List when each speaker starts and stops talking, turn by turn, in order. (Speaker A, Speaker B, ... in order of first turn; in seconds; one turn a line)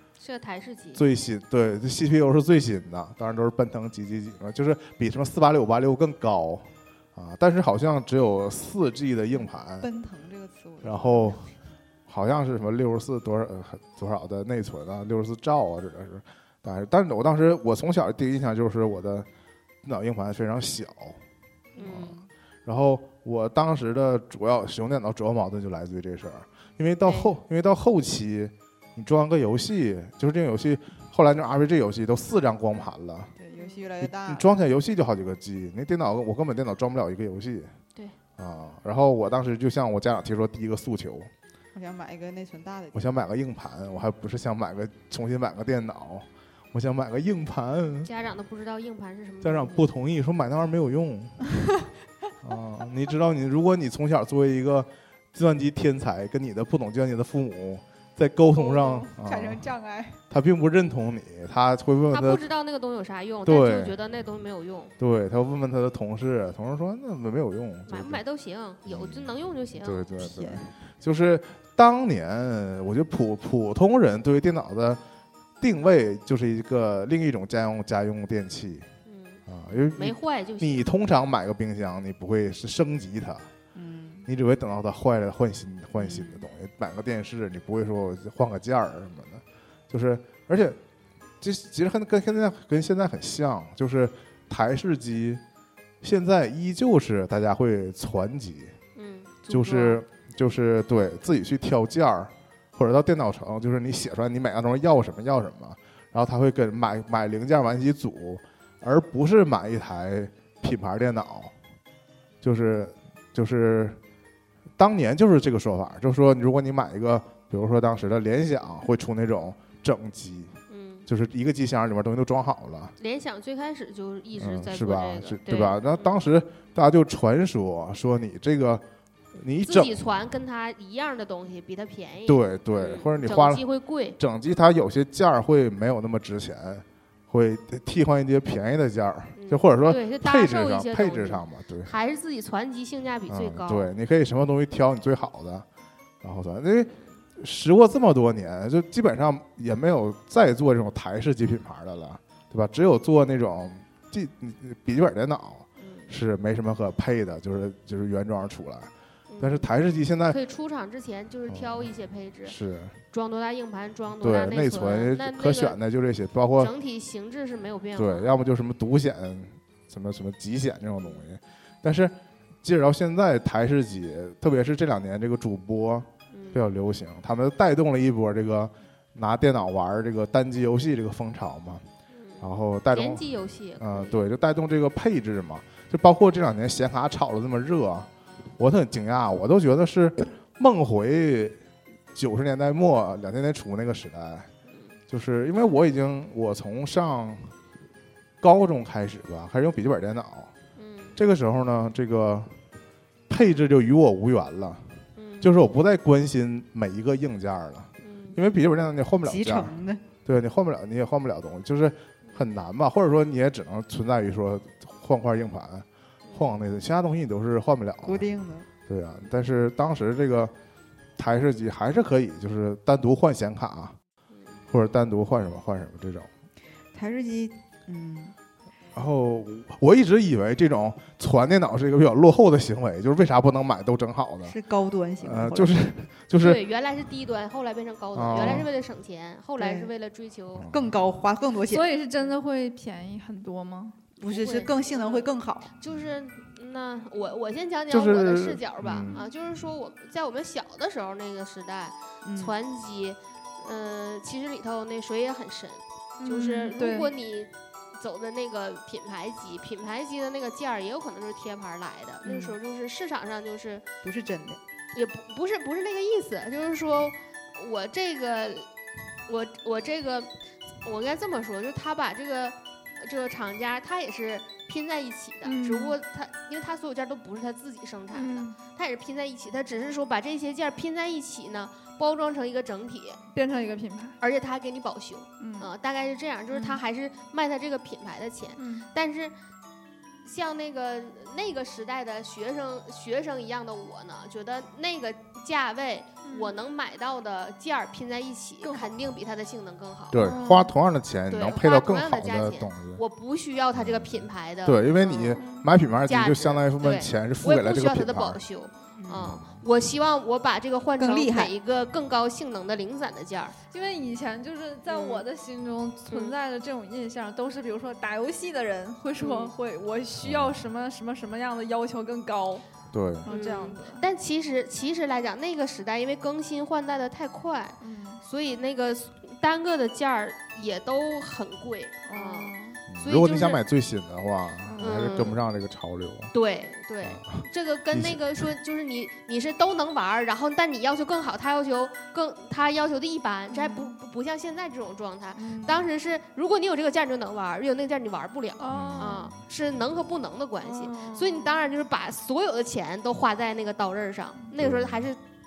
Speaker A: 0.2-1.0
Speaker B: 0.9-9.9
Speaker C: 9.8-11.4
Speaker B: 10.8-11.5
Speaker B: 12.1-19.3
Speaker B: 19.8-21.2
Speaker A: 21.8-22.2
Speaker B: 21.8-33.3
Speaker A: 27.0-27.3
Speaker C: 33.4-34.5
Speaker B: 34.0-37.7
Speaker B: 38.4-41.3
Speaker C: 41.7-43.0
Speaker B: 42.9-48.1
Speaker A: 48.0-49.8
Speaker B: 49.4-51.5
Speaker B: 52.4-59.6
Speaker C: 58.6-60.2
Speaker B: 60.3-62.4
Speaker A: 62.1-64.9
Speaker B: 63.5-64.0
Speaker B: 65.0-68.2
Speaker A: 67.9-70.0
Speaker B: 68.8-75.0
Speaker C: 70.2-70.7
Speaker B: 75.6-78.9
Speaker A: 79.0-80.9
Speaker B: 79.5-83.5
Speaker C: 83.7-84.3
Speaker B: 84.3-90.8
Speaker C: 86.0-86.5
Speaker B: 91.4-95.4
Speaker B: 96.0-98.8
Speaker A: 99.0-99.4
Speaker C: 99.4-100.0
Speaker B: 99.5-111.5
Speaker B: 112.4-114.0
Speaker B: 114.8-120.5
Speaker A: 120.7-121.1
Speaker B: 121.1-122.9
Speaker A: 123.0-126.1
Speaker B: 124.4-130.0
Speaker A: 129.6-134.2
Speaker B: 132.2-133.6
Speaker B: 134.2-141.9
Speaker A: 139.3-143.9
Speaker B: 143.3-145.7
Speaker B: 146.2-160.4
Speaker A: 155.8-156.1
Speaker A: 159.3-159.7
Speaker A: 160.3-162.6
Speaker B: 161.5-161.9
Speaker B: 162.4-162.9
Speaker A: 163.1-165.8
Speaker B: 164.2-166.7
Speaker A: 166.6-168.3
Speaker B: 167.9-181.8
Speaker A: 176.3-176.7
Speaker A: 182.1-184.2
Speaker B: 182.4-183.2
Speaker B: 183.8-191.6
Speaker B: 192.1-194.5
Speaker B: 195.1-197.5
Speaker B: 198.4-200.5
Speaker A: 200.8-201.2
Speaker B: 201.2-202.5
Speaker B: 203.3-209.7
Speaker A: 205.2-205.5
Speaker A: 208.0-208.4
Speaker C: 209.2-210.0
Speaker B: 210.2-218.3
Speaker C: 218.0-218.7
Speaker B: 218.9-220.5
Speaker B: 221.2-223.9
Speaker B: 224.7-226.3
Speaker C: 226.9-228.3
Speaker B: 228.9-234.6
Speaker C: 234.4-235.7
Speaker B: 235.2-236.6
Speaker A: 236.4-240.7
Speaker B: 238.1-238.7
Speaker C: 239.6-239.9
Speaker B: 240.5-240.9
Speaker C: 240.7-241.9
Speaker D: 241.6-244.0
Speaker A: 244.2-263.8
Speaker C: 244.2-245.7
Speaker B: 247.9-249.2
Speaker C: 252.2-252.5
Speaker D: 256.2-257.1
Speaker C: 264.0-264.6
Speaker A: 264.9-268.7
Speaker A: 269.3-270.3
Speaker A: 270.8-283.2
Speaker D: 275.4-275.9
Speaker D: 278.1-278.6
Speaker D: 283.3-284.1
Speaker A: 284.2-289.3
Speaker D: 285.4-285.7
Speaker D: 286.5-286.8
Speaker D: 288.6-288.9
Speaker A: 290.2-300.3
Speaker D: 296.2-296.6
Speaker D: 298.6-298.9
Speaker B: 300.1-303.0
Speaker D: 300.1-300.7
Speaker A: 301.3-305.4
Speaker B: 303.7-308.4
Speaker D: 305.4-305.7
Speaker A: 306.0-313.6
Speaker C: 308.9-309.4
Speaker B: 309.2-309.6
Speaker C: 311.0-311.5
Speaker D: 313.7-322.6
Speaker A: 314.9-315.2
Speaker A: 316.1-316.4
Speaker A: 319.2-319.5
Speaker B: 320.2-320.7
Speaker B: 322.9-323.3
Speaker D: 323.2-324.0
Speaker A: 323.3-333.6
Speaker D: 327.8-328.2
Speaker D: 332.1-332.8
Speaker B: 332.9-336.3
Speaker D: 334.6-335.3
Speaker A: 334.8-335.4
Speaker A: 336.3-355.2
Speaker B: 337.0-338.5
Speaker D: 343.5-343.9
Speaker D: 345.4-345.8
Speaker D: 348.6-349.3
Speaker B: 348.7-349.2
Speaker D: 350.6-351.6
Speaker B: 354.5-355.1